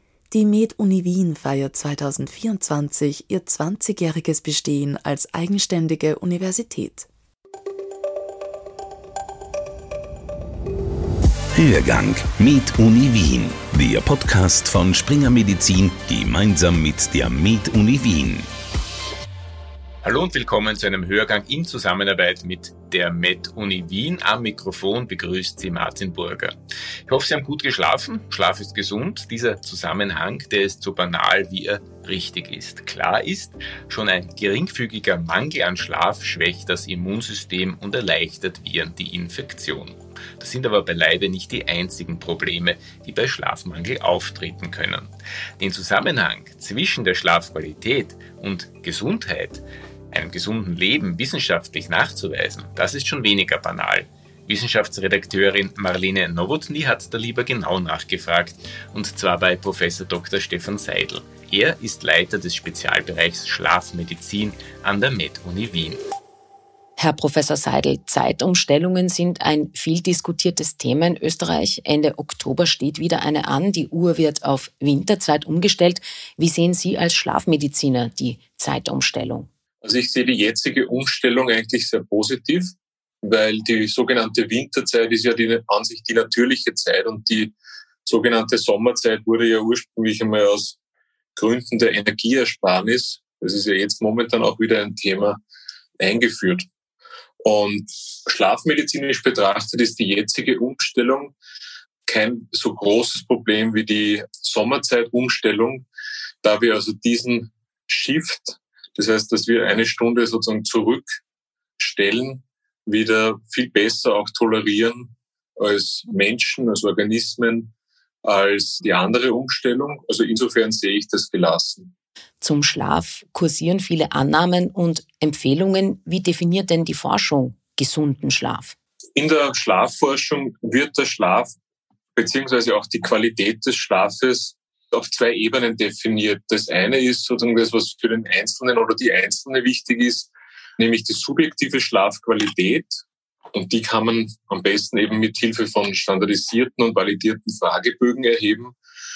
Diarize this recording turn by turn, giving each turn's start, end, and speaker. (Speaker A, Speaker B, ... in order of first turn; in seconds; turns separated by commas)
Speaker A: 0.3-7.1, Speaker B: 11.6-18.5, Speaker C: 20.0-26.6, Speaker C: 27.1-66.0, Speaker D: 67.0-79.5, Speaker E: 79.8-87.5, Speaker E: 88.0-90.8, Speaker E: 91.4-95.4, Speaker E: 96.0-96.7, Speaker E: 97.4-101.3, Speaker E: 102.1-105.9, Speaker E: 106.4-111.2, Speaker E: 111.8-117.7, Speaker E: 118.2-121.9, Speaker D: 122.4-128.8, Speaker E: 129.2-131.5, Speaker E: 132.2-148.8